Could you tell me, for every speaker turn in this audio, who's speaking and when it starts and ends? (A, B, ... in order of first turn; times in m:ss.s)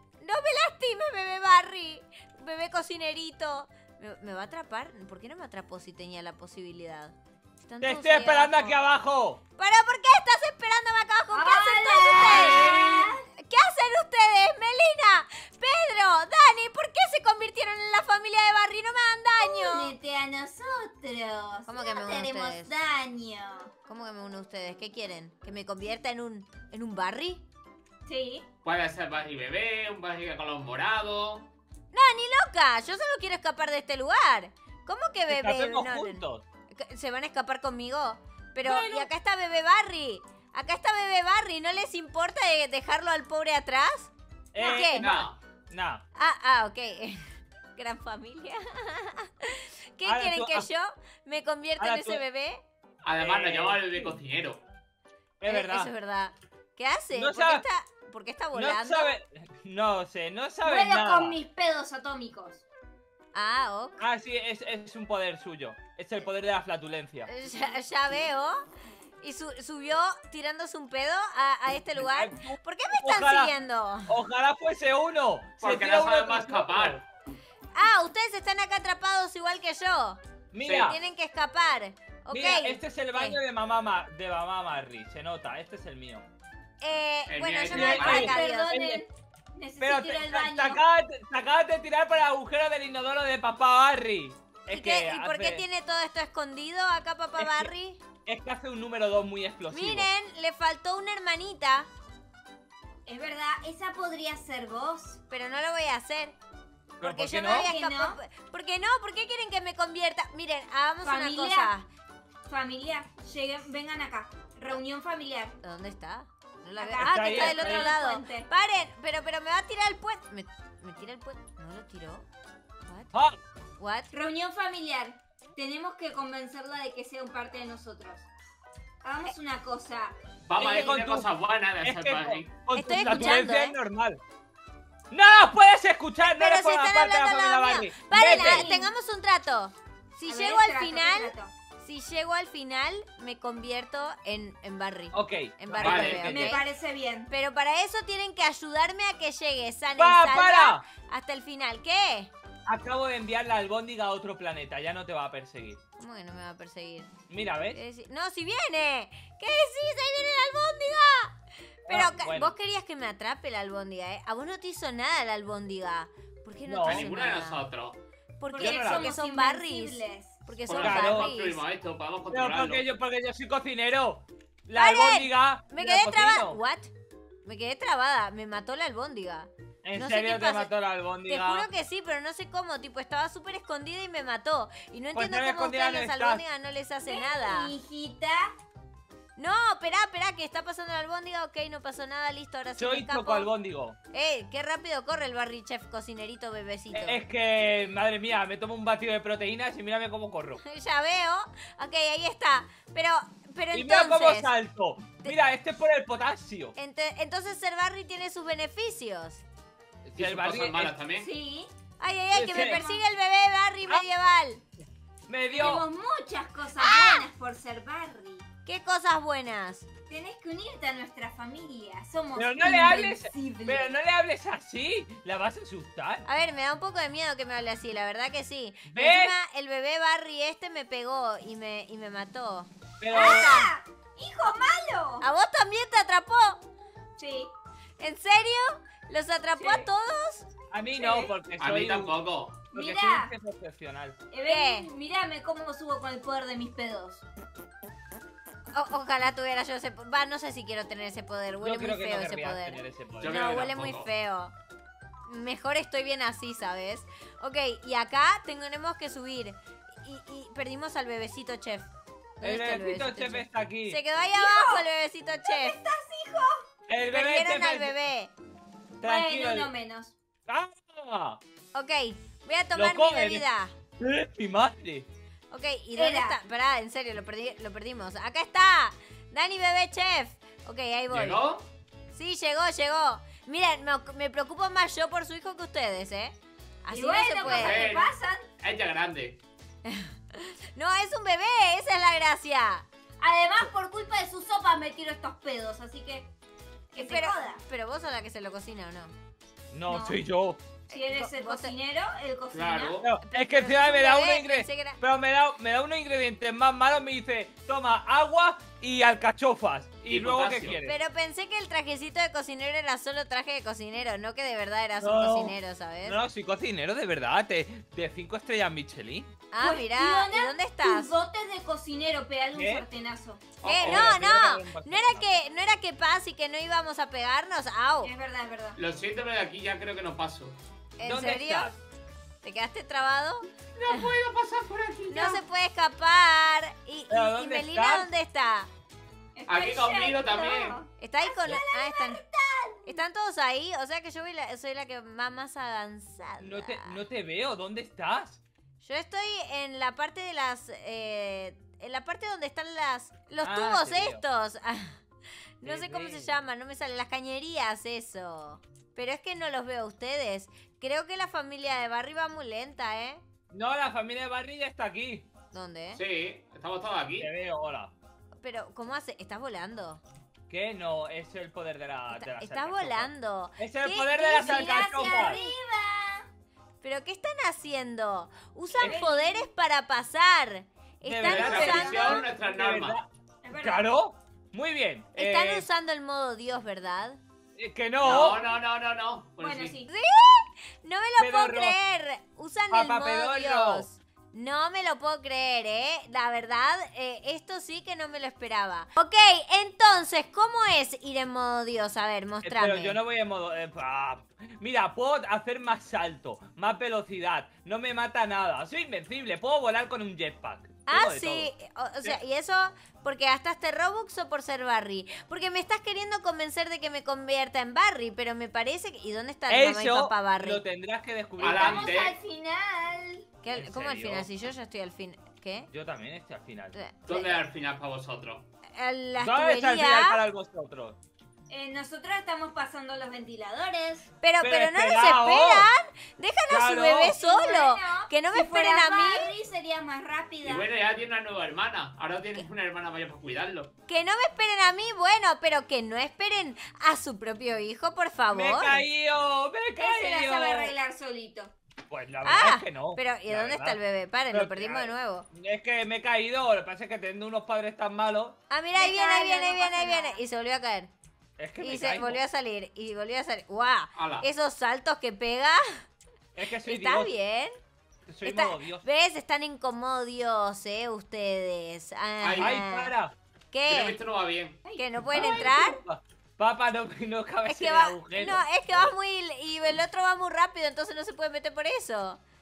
0:00.2-0:08.8 A
0:07.8-0:09.4 B
0:09.6-0:12.8 A
0:11.3-0:13.2 C
0:12.2-0:13.1 B
0:13.4-0:19.9 A
0:19.4-0:23.7 C
0:21.7-0:22.7 A
0:23.8-0:27.4 A
0:28.0-0:28.4 C
0:28.6-0:31.5 D
0:31.9-0:45.0 A
0:35.3-0:36.4 B
0:38.6-0:39.1 B
0:44.5-0:46.0 B
0:45.0-0:45.4 D
0:46.2-0:52.6 A
0:50.0-0:50.7 B
0:51.8-0:52.2 B
0:53.0-0:54.6 D
0:53.2-0:54.2 B
0:55.4-0:55.9 B
0:55.4-0:59.2 A
0:57.1-0:57.6 B
0:58.5-1:01.4 B
1:00.6-1:02.6 C
1:03.3-1:04.0 A
1:04.0-1:07.3 B
1:07.3-1:08.6 A
1:09.2-1:14.1 A
1:11.9-1:13.5 B
1:14.1-1:17.0 B
1:15.6-1:17.0 D
1:17.7-1:20.2 A
1:20.5-1:21.0 B
1:20.6-1:21.0 D
1:20.8-1:23.4 A
1:22.3-1:26.2 B
1:26.8-1:28.8 A
1:27.3-1:28.3 D
1:27.7-1:29.0 B
1:27.8-1:30.8 C
1:29.8-1:35.6 B
1:34.7-1:38.0 A
1:37.4-1:37.7 B
1:38.2-1:40.1 B
1:39.7-1:41.9 A
1:43.0-1:45.2 C
1:45.3-1:46.4 A
1:47.0-1:47.7 B
1:47.0-1:51.8 A
1:47.4-1:48.2 C
1:51.0-1:51.7 C
1:52.4-1:55.6 C
1:55.6-2:02.2 A
1:56.8-1:58.5 C
1:57.0-1:57.9 B
2:02.9-2:03.1 A
2:03.1-2:03.4 B
2:03.8-2:04.1 A
2:04.1-2:08.3 C
2:09.0-2:11.0 C
2:10.4-2:12.5 D
2:10.6-2:11.3 B
2:11.8-2:14.2 B
2:12.7-2:13.8 A
2:15.1-2:18.7 B
2:16.2-2:26.6 A
2:18.1-2:18.9 C
2:20.3-2:21.5 C
2:25.1-2:26.6 B
2:25.8-2:26.2 D
2:25.9-2:27.3 C
2:27.3-2:32.3 A
2:30.0-2:30.8 B
2:32.6-2:35.8 B
2:36.0-2:37.1 A
2:37.3-2:37.8 B
2:37.7-2:47.6 A
2:41.9-2:42.5 B
2:46.6-2:47.1 B
2:46.8-2:48.0 D
2:48.4-2:51.6 A
2:48.5-2:50.4 C
2:48.6-2:49.2 B
2:50.7-2:52.8 D
2:50.8-2:51.3 B
2:52.3-2:56.6 B
2:54.7-2:56.9 A
2:57.4-3:00.7 A
2:59.8-3:01.7 B
3:01.3-3:07.7 A
3:05.1-3:06.4 B
3:07.1-3:08.5 C
3:09.4-3:13.5 A
3:12.8-3:14.0 B
3:14.1-3:17.2 A
3:16.9-3:20.6 B
3:20.6-3:24.5 A
3:23.7-3:26.7 B
3:26.8-3:29.4 A
3:30.0-3:30.9 B
3:30.2-3:31.3 D
3:31.1-3:31.7 C
3:32.0-3:34.6 A
3:32.3-3:32.8 B
3:32.5-3:33.0 C
3:35.3-3:35.8 B
3:35.5-3:38.4 C
3:36.8-3:37.2 A
3:38.6-3:39.8 A
3:40.1-3:43.9 C
3:42.3-3:46.2 B
3:46.2-3:53.7 A
3:48.8-3:49.4 B
3:53.0-3:53.6 B
3:53.1-3:55.2 C
3:55.2-3:56.6 A
3:57.2-3:57.5 C
3:58.0-4:00.5 A
3:59.6-3:59.9 C
4:00.7-4:04.2 B
4:01.0-4:01.3 C
4:01.6-4:02.6 D
4:02.7-4:03.3 C
4:04.3-4:07.2 C
4:04.4-4:04.9 A
4:08.7-4:14.5 A
4:11.6-4:13.7 B
4:13.2-4:14.1 D
4:15.2-4:25.8 A
4:22.4-4:24.0 B
4:24.3-4:24.8 C
4:25.4-4:26.6 C
4:26.9-4:28.0 B
4:27.1-4:28.3 A
4:29.0-4:29.7 B
4:29.0-4:30.1 C
4:30.5-4:31.4 B
4:31.7-4:33.7 A
4:32.7-4:33.4 B
4:34.0-4:35.1 B
4:35.5-4:41.4 A
4:36.0-4:36.4 C
4:41.1-4:41.6 D
4:42.1-4:47.9 A
4:46.9-4:48.5 C
4:47.4-4:49.4 D
4:49.8-4:52.8 A
4:53.2-4:56.3 C
4:56.9-4:57.6 C
4:56.9-4:59.1 A
4:59.7-5:00.6 B
4:59.9-5:00.2 C
5:00.9-5:01.7 A
5:00.9-5:03.0 C
5:02.5-5:03.1 D
5:03.0-5:11.0 B
5:03.2-5:05.0 A
5:10.1-5:10.8 D
5:10.8-5:16.2 A
5:15.0-5:19.3 B
5:19.5-5:21.1 A
5:19.6-5:23.5 C
5:22.5-5:22.8 B
5:23.6-5:24.1 D
5:23.6-5:28.1 A
5:23.6-5:25.4 B
5:28.0-5:28.8 C
5:28.8-5:30.6 D
5:31.0-5:31.7 A
5:31.0-5:31.8 B
5:32.4-5:34.1 A
5:33.8-5:35.4 D
5:35.1-5:38.7 A
5:37.1-5:38.1 B
5:39.4-5:43.0 C
5:39.5-5:40.8 D
5:41.0-5:42.2 A
5:42.8-5:47.0 A
5:46.4-5:48.4 B
5:48.8-5:55.0 A
5:53.4-5:54.2 B
5:55.6-6:03.2 A
5:55.6-5:56.3 B
6:03.5-6:05.3 B
6:05.5-6:06.0 A
6:06.0-6:07.3 D
6:07.2-6:07.9 B
6:08.4-6:10.0 A
6:10.5-6:15.4 B
6:12.1-6:15.5 A
6:14.4-6:16.3 C
6:16.8-6:22.2 A
6:18.7-6:19.4 C
6:21.0-6:25.7 B
6:21.2-6:23.0 D
6:23.4-6:23.9 C
6:25.1-6:27.2 A
6:27.6-6:28.4 B
6:28.0-6:29.8 D
6:29.4-6:29.9 C
6:29.9-6:43.0 A
6:31.2-6:31.8 B
6:32.7-6:33.8 B
6:42.4-6:51.5 B
6:50.9-7:00.6 A
6:59.5-7:01.9 B
7:01.4-7:02.1 D
7:01.4-7:03.3 C
7:03.4-7:05.7 A
7:03.5-7:04.3 B
7:05.7-7:06.7 B
7:06.7-7:07.4 A
7:07.1-7:08.4 D
7:08.8-7:10.2 A
7:09.2-7:11.0 B
7:11.5-7:14.1 C
7:14.2-7:19.3 A
7:14.4-7:15.7 B
7:16.5-7:17.2 B
7:17.1-7:20.7 C
7:20.4-7:23.7 D
7:23.9-7:28.8 A
7:28.3-7:30.7 B
7:29.8-7:31.5 C
7:31.9-7:33.8 B
7:32.2-7:35.3 A
7:34.3-7:38.4 B
7:38.5-7:40.9 A
7:38.7-7:40.2 C
7:41.4-7:42.2 B
7:41.6-7:45.8 A
7:43.9-7:44.3 D
7:46.3-7:47.1 B
7:46.6-7:47.6 A
7:48.0-7:48.8 B
7:48.2-7:52.9 A
7:52.2-7:52.6 D
7:52.3-7:53.1 B
7:53.5-7:54.0 A
7:53.7-7:54.6 D
7:54.6-7:55.7 C
7:54.8-7:55.8 A
7:55.1-7:58.9 B
7:57.4-8:02.2 A